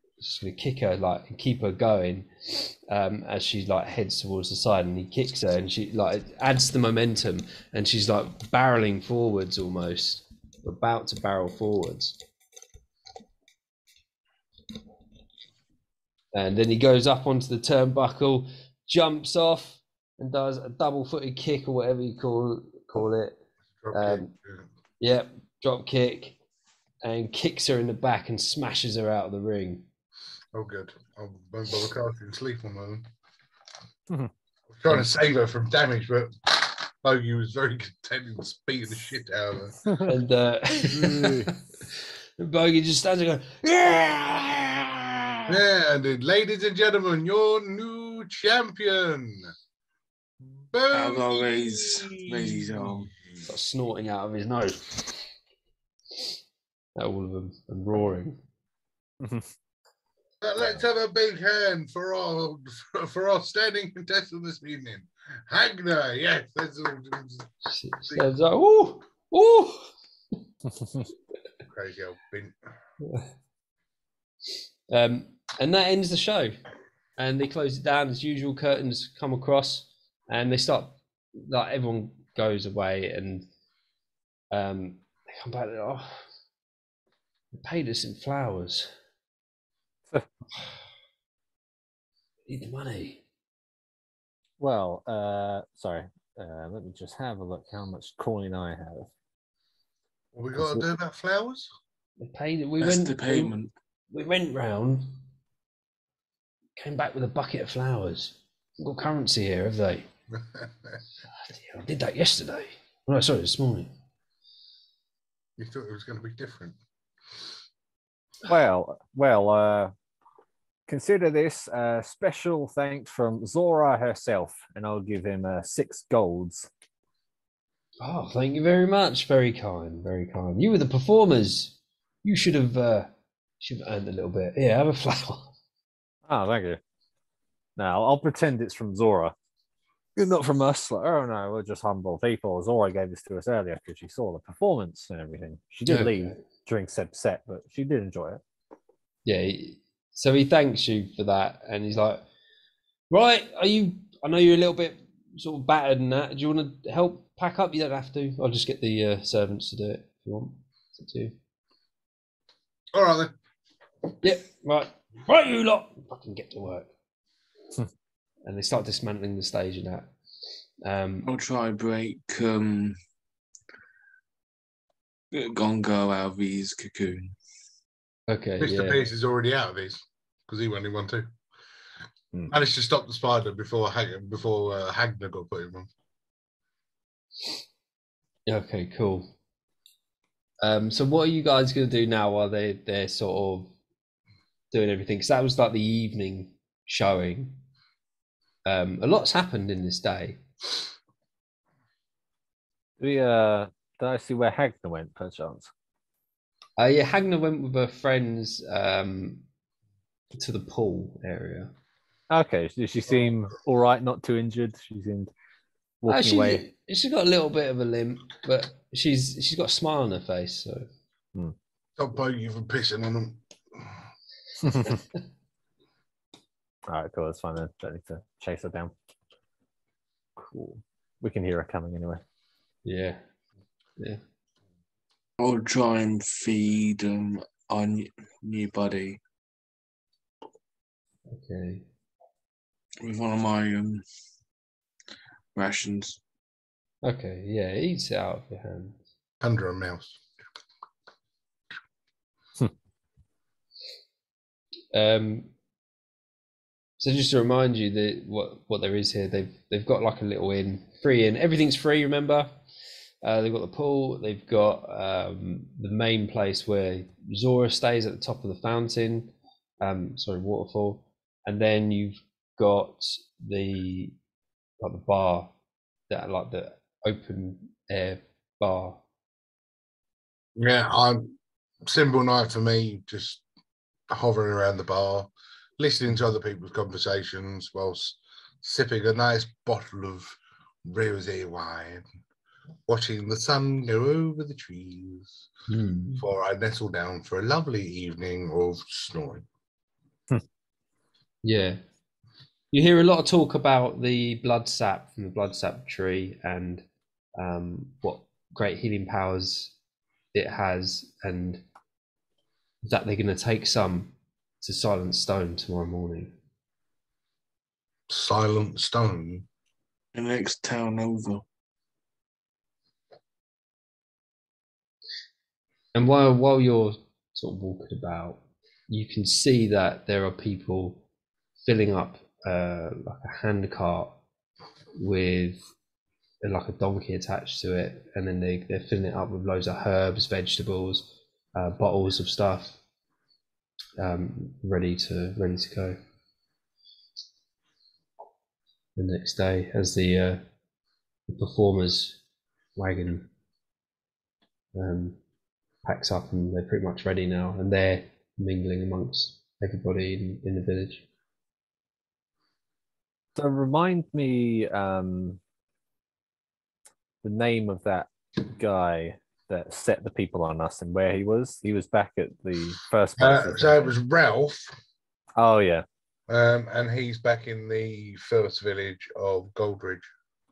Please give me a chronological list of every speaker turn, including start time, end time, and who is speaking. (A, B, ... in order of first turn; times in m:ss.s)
0:00.2-0:12.2 A
0:16.3-0:23.4 A
0:23.8-0:24.7 B
0:23.9-0:24.3 A
0:25.0-0:26.4 A
0:27.0-0:29.8 A
0:30.5-0:33.1 B
0:34.7-0:39.9 B
0:39.9-0:40.1 C
0:40.0-0:45.6 A
0:40.9-0:41.5 D
0:41.1-0:41.5 C
0:45.5-0:49.5 B
0:50.7-0:53.4 B
0:50.9-0:53.1 D
0:53.4-0:55.1 A
0:57.0-0:58.4 A
0:59.2-0:59.5 C
1:00.4-1:07.5 B
1:07.7-1:09.9 A
1:11.7-1:12.5 B
1:13.0-1:13.3 A
1:14.9-1:16.6 A
1:17.2-1:23.5 A
1:24.5-1:26.2 A
1:27.5-1:28.9 A
1:32.5-1:33.2 A
1:34.6-1:39.1 C
1:40.3-1:41.7 B
1:40.6-1:40.8 C
1:42.2-1:43.5 A
1:42.8-1:43.7 D
1:44.1-1:45.2 A
1:46.8-1:50.1 A
1:50.4-1:50.7 B
1:51.5-1:53.9 A
1:55.6-1:56.8 B
1:58.4-1:59.9 C
2:00.9-2:06.7 C
2:08.0-2:15.5 A
2:16.3-2:16.8 C
2:17.8-2:19.3 C
2:20.2-2:28.4 C
2:25.9-2:26.4 A
2:29.2-2:32.2 A
2:33.1-2:41.3 A
2:42.9-2:43.3 B
2:44.2-2:46.9 A
2:48.4-2:50.1 A
2:50.8-2:51.3 A
2:51.2-2:53.0 D
2:55.3-2:57.3 D
2:58.3-2:59.0 A
2:58.6-3:01.3 B
3:02.5-3:05.9 B
3:08.5-3:09.3 A
3:10.6-3:13.7 A
3:14.7-3:17.6 A
3:18.6-3:20.4 A
3:23.0-3:25.7 C
3:26.8-3:29.4 A
3:30.3-3:31.7 A
3:32.3-3:35.3 C
3:36.0-3:36.6 C
3:36.1-3:40.9 A
3:42.0-3:43.9 B
3:44.6-3:45.0 C
3:46.9-3:48.9 C
3:50.4-3:52.2 C
3:52.8-3:53.2 A
3:55.4-3:59.2 D
4:01.3-4:01.8 A
4:03.0-4:04.0 D
4:05.6-4:06.2 D
4:07.0-4:09.0 A
4:09.4-4:10.2 B
4:14.9-4:15.5 A
4:17.0-4:22.6 A
4:23.2-4:34.2 A
4:34.8-4:35.5 A
4:36.1-4:39.0 A
4:40.6-4:43.4 B
4:44.1-4:52.0 B
4:52.9-4:55.3 B
4:55.7-4:56.2 A
4:56.2-4:59.4 B
5:01.4-5:01.8 A
5:02.7-5:09.7 A
5:10.3-5:11.6 A
5:12.8-5:16.3 A
5:18.1-5:19.4 B
5:20.1-5:21.4 D
5:25.9-5:31.0 A
5:31.6-5:34.2 A
5:35.0-5:35.6 A
5:36.4-5:42.8 A
5:44.0-5:46.0 A
5:49.0-5:50.4 A
5:51.3-5:52.2 A
5:52.8-5:53.3 A
5:54.7-5:55.2 A
5:55.8-6:01.0 A
6:03.4-6:05.4 C
6:07.2-6:13.9 C
6:13.2-6:14.8 B
6:15.4-6:15.8 C
6:16.3-6:20.1 B